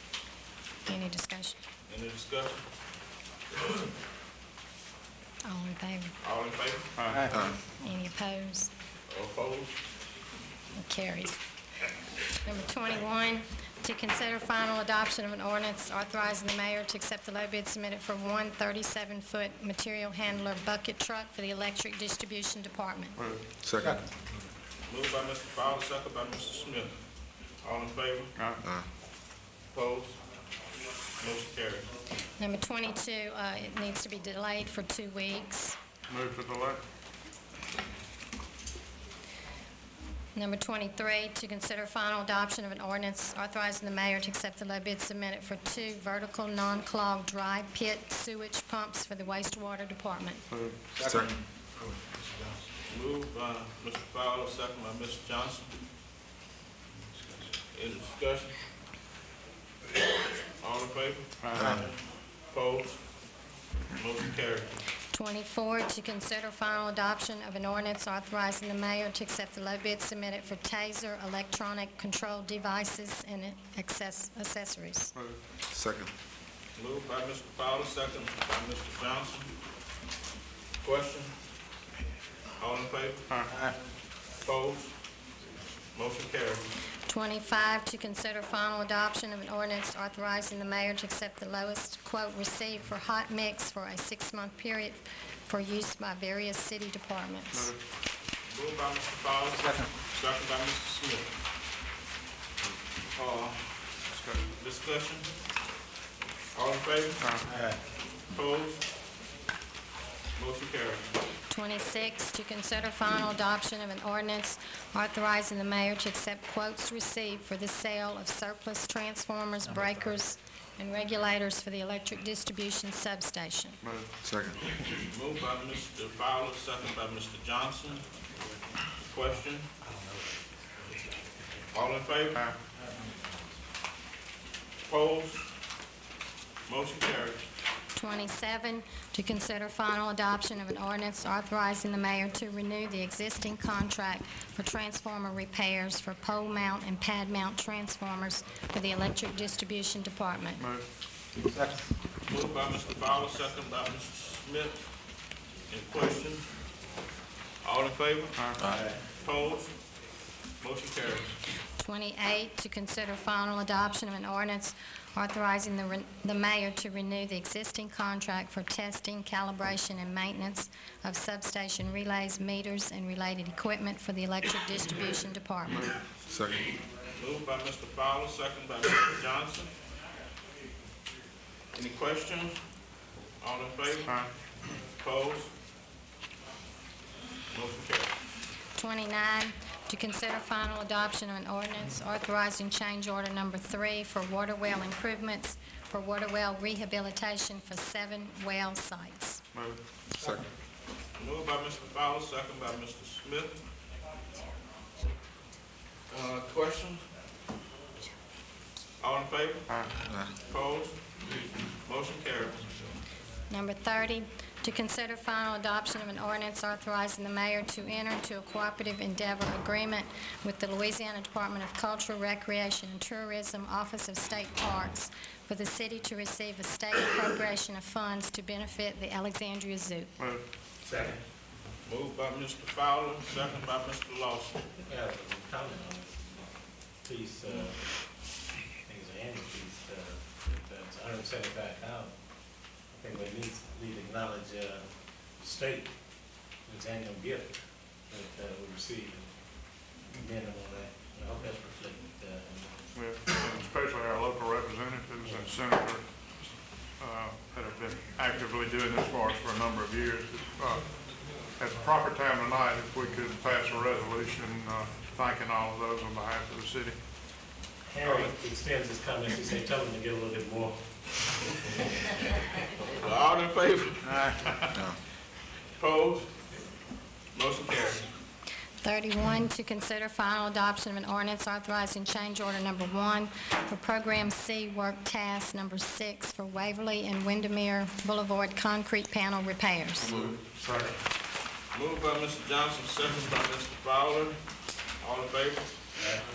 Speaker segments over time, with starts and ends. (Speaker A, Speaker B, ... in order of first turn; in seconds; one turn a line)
Speaker A: 0.9-1.6
Speaker B: 1.9-2.6
Speaker A: 5.5-6.1
Speaker B: 6.2-6.9
Speaker C: 7.0-7.3
Speaker A: 7.8-8.7
Speaker B: 9.1-9.8
Speaker A: 10.8-11.4
Speaker A: 12.4-23.2
Speaker C: 23.2-23.4
Speaker D: 23.6-24.0
Speaker B: 24.9-26.9
Speaker B: 27.6-28.3
Speaker B: 29.7-30.2
Speaker B: 31.2-31.9
Speaker A: 32.4-35.8
Speaker C: 36.1-36.8
Speaker A: 40.4-50.4
Speaker C: 50.5-50.8
Speaker D: 51.0-51.3
Speaker B: 52.9-55.7
Speaker B: 57.7-58.6
Speaker B: 60.6-63.0
Speaker C: 61.4-61.8
Speaker B: 63.9-64.7
Speaker A: 65.1-75.1
Speaker D: 75.7-76.1
Speaker B: 76.8-79.5
Speaker B: 80.8-81.3
Speaker B: 82.6-83.2
Speaker C: 83.3-83.6
Speaker B: 84.4-84.9
Speaker B: 85.9-86.7
Speaker A: 87.1-97.7
Speaker B: 98.4-101.3
Speaker B: 103.1-105.3
Speaker B: 106.5-107.2
Speaker C: 107.2-107.5
Speaker E: 107.5-107.8
Speaker B: 108.3-108.8
Speaker B: 110.4-111.1
Speaker A: 111.5-123.8
Speaker C: 123.8-124.1
Speaker D: 124.2-124.6
Speaker B: 125.0-128.1
Speaker B: 129.0-129.7
Speaker E: 129.8-131.5
Speaker B: 131.7-132.4
Speaker E: 132.8-133.2
Speaker B: 134.9-135.5
Speaker B: 136.7-137.5
Speaker A: 137.9-150.6
Speaker C: 150.6-150.8
Speaker E: 151.4-151.8
Speaker B: 152.2-154.8
Speaker B: 155.7-156.5
Speaker B: 157.6-158.5
Speaker E: 158.7-158.9
Speaker B: 159.1-159.7
Speaker B: 160.6-161.3
Speaker A: 161.8-175.9
Speaker D: 176.3-176.6
Speaker B: 177.2-179.7
Speaker B: 181.7-182.6
Speaker B: 183.4-184.1
Speaker B: 185.0-185.5
Speaker B: 187.5-188.1
Speaker A: 188.8-199.4
Speaker C: 199.5-199.8
Speaker D: 200.1-200.5
Speaker B: 201.2-203.6
Speaker B: 206.1-207.0
Speaker B: 209.0-211.2
Speaker B: 211.8-212.9
Speaker A: 213.5-230.1
Speaker E: 230.9-231.2
Speaker B: 231.9-234.6
Speaker E: 234.8-236.5
Speaker E: 237.0-237.8
Speaker E: 238.9-242.1
Speaker E: 242.9-244.8
Speaker E: 245.4-245.9
Speaker E: 246.7-247.6
Speaker E: 248.1-249.3
Speaker E: 250.0-252.8
Speaker C: 252.9-256.2
Speaker E: 255.2-255.5
Speaker C: 257.0-260.9
Speaker C: 261.6-267.0
Speaker E: 267.9-270.8
Speaker B: 268.0-268.4
Speaker B: 272.8-274.8
Speaker B: 275.8-276.3
Speaker B: 277.3-278.0
Speaker A: 278.8-290.1
Speaker C: 290.0-290.9
Speaker B: 291.7-294.4
Speaker B: 295.0-295.8